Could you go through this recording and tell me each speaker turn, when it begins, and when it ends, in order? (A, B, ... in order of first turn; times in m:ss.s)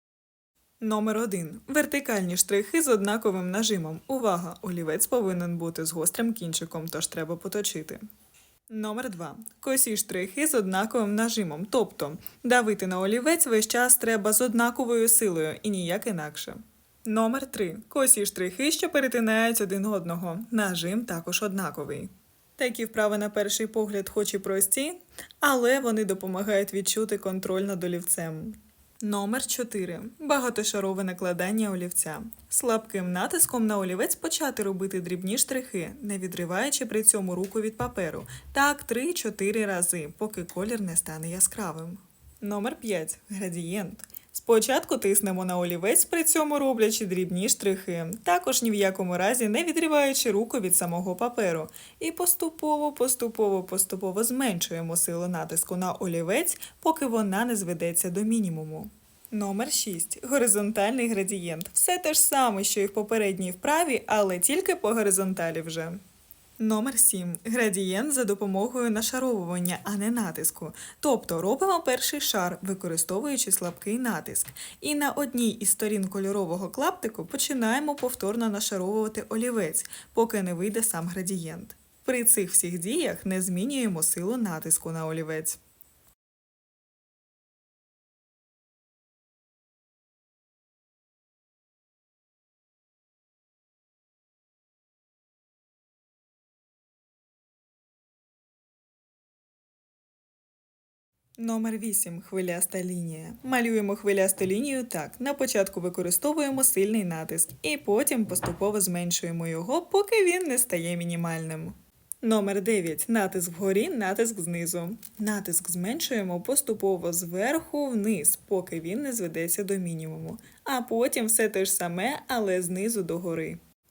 0:00.8-0:08.0 A
0:08.7-1:06.0 A
1:06.6-1:25.6 A
1:41.4-2:03.6 A